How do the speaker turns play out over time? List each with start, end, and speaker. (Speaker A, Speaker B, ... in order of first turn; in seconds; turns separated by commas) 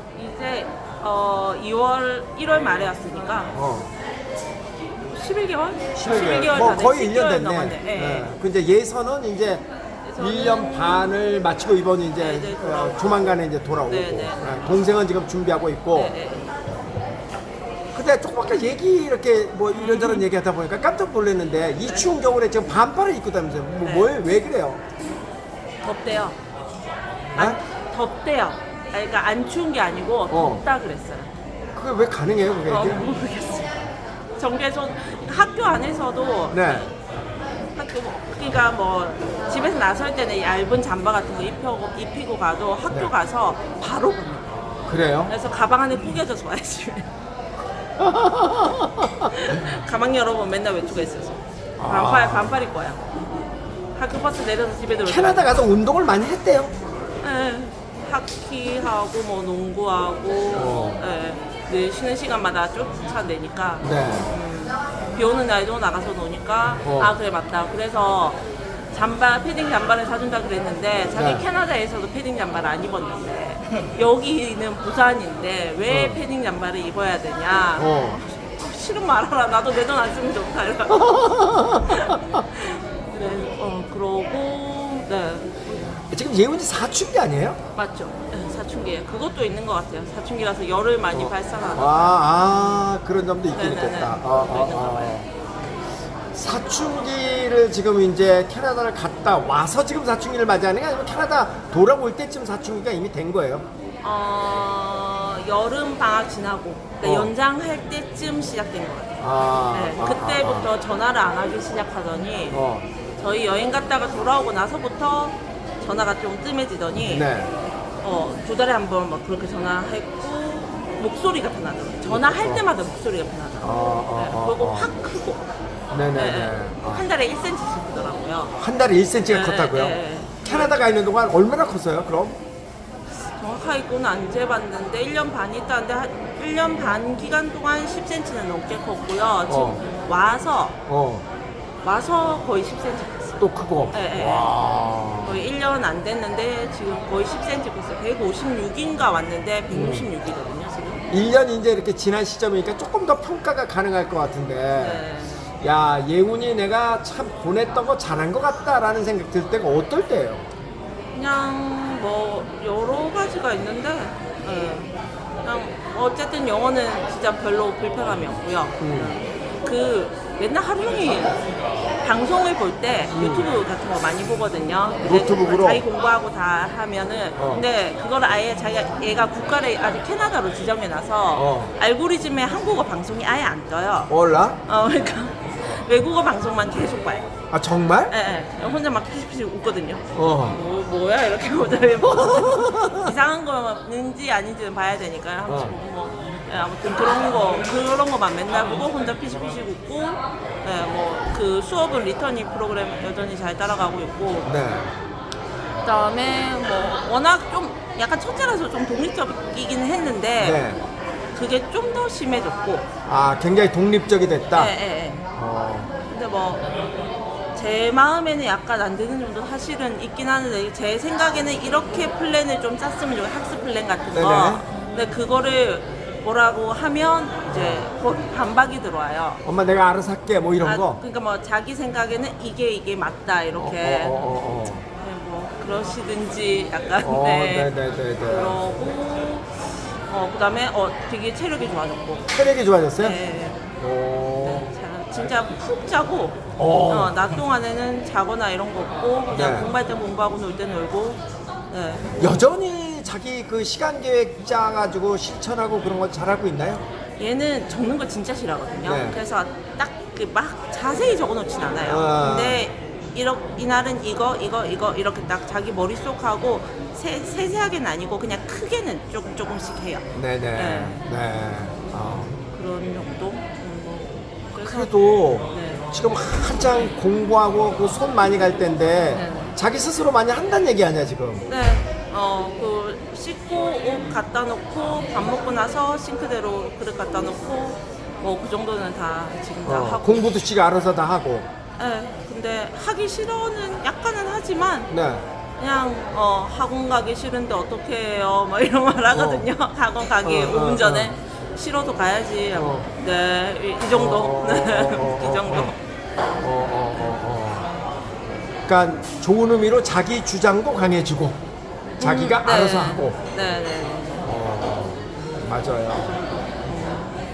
Speaker A: 0.2-3.5, Speaker B: 3.5-3.9, Speaker A: 5.1-8.3, Speaker B: 6.0-9.7, Speaker A: 10.0-11.2, Speaker B: 10.2-16.2, Speaker A: 12.2-13.0, Speaker A: 13.9-14.5, Speaker A: 15.9-16.5, Speaker B: 17.9-24.8, Speaker A: 19.8-20.3, Speaker A: 21.8-22.1, Speaker A: 23.8-24.1, Speaker A: 25.8-26.4, Speaker A: 27.3-31.3, Speaker B: 30.3-30.6, Speaker B: 31.8-33.0, Speaker A: 32.7-33.8, Speaker A: 34.4-36.9, Speaker B: 36.5-36.9, Speaker A: 37.8-44.7, Speaker B: 44.9-45.3, Speaker A: 45.3-47.1, Speaker B: 48.0-49.3, Speaker A: 49.3-53.1, Speaker B: 51.8-52.6, Speaker A: 54.0-55.6, Speaker B: 55.0-56.7, Speaker A: 57.2-68.4, Speaker B: 60.5-61.0, Speaker B: 63.8-64.3, Speaker B: 66.8-67.1, Speaker A: 68.9-86.1, Speaker B: 71.2-71.4, Speaker B: 75.9-76.2, Speaker B: 77.8-78.2, Speaker B: 80.9-82.4, Speaker B: 86.1-87.6, Speaker A: 87.8-92.2, Speaker B: 91.1-95.3, Speaker A: 93.5-95.2, Speaker B: 96.3-103.7, Speaker A: 104.0-112.6, Speaker B: 107.0-107.3, Speaker B: 109.2-110.7, Speaker B: 112.5-112.9, Speaker A: 113.2-117.3, Speaker B: 117.1-117.5, Speaker A: 118.0-125.4, Speaker B: 122.1-122.6, Speaker B: 123.6-124.9, Speaker B: 125.9-127.0, Speaker A: 126.1-128.5, Speaker B: 128.6-132.4, Speaker A: 129.3-130.8, Speaker A: 133.4-140.8, Speaker B: 139.5-139.8, Speaker B: 140.9-141.2, Speaker A: 141.8-144.5, Speaker B: 143.4-145.4, Speaker A: 145.2-151.1, Speaker B: 149.7-150.1, Speaker B: 151.1-155.0, Speaker A: 154.8-155.4, Speaker B: 155.6-160.4, Speaker A: 161.1-164.9, Speaker A: 165.4-171.4, Speaker B: 168.8-169.1, Speaker A: 172.0-184.1, Speaker B: 173.1-173.5, Speaker B: 175.0-175.8, Speaker B: 177.4-177.6, Speaker B: 181.3-181.7, Speaker B: 184.1-184.6, Speaker A: 184.7-187.3, Speaker B: 187.5-188.2, Speaker A: 188.1-204.5, Speaker B: 190.1-190.6, Speaker B: 192.0-193.1, Speaker B: 195.5-195.8, Speaker B: 204.4-204.9, Speaker A: 205.8-210.7, Speaker B: 210.4-210.8, Speaker A: 211.3-212.9, Speaker B: 213.1-214.7, Speaker A: 214.5-215.3, Speaker B: 215.3-215.9, Speaker A: 216.1-216.7, Speaker A: 217.6-229.4, Speaker B: 224.1-224.7, Speaker B: 227.5-227.9, Speaker B: 229.4-231.0, Speaker A: 230.6-234.3, Speaker B: 233.6-234.8, Speaker A: 235.0-242.3, Speaker B: 237.0-238.6, Speaker B: 242.3-243.2, Speaker A: 243.0-243.7, Speaker B: 243.8-244.7, Speaker A: 244.4-252.1, Speaker B: 246.6-247.2, Speaker B: 249.3-249.7, Speaker B: 252.2-256.8, Speaker A: 257.2-271.1, Speaker B: 258.9-259.2, Speaker B: 261.9-262.6, Speaker B: 270.1-272.4, Speaker A: 272.5-275.9, Speaker B: 274.6-281.4, Speaker A: 279.1-279.6, Speaker A: 281.5-290.2, Speaker B: 289.6-291.5, Speaker A: 291.8-294.9, Speaker B: 294.9-295.2, Speaker A: 295.6-305.8, Speaker B: 299.1-299.5, Speaker B: 300.2-301.1, Speaker B: 302.6-302.9, Speaker B: 303.9-305.7, Speaker B: 306.4-307.7, Speaker B: 308.7-311.4, Speaker A: 312.0-314.3, Speaker B: 312.0-313.2, Speaker B: 314.2-316.1, Speaker A: 315.9-317.2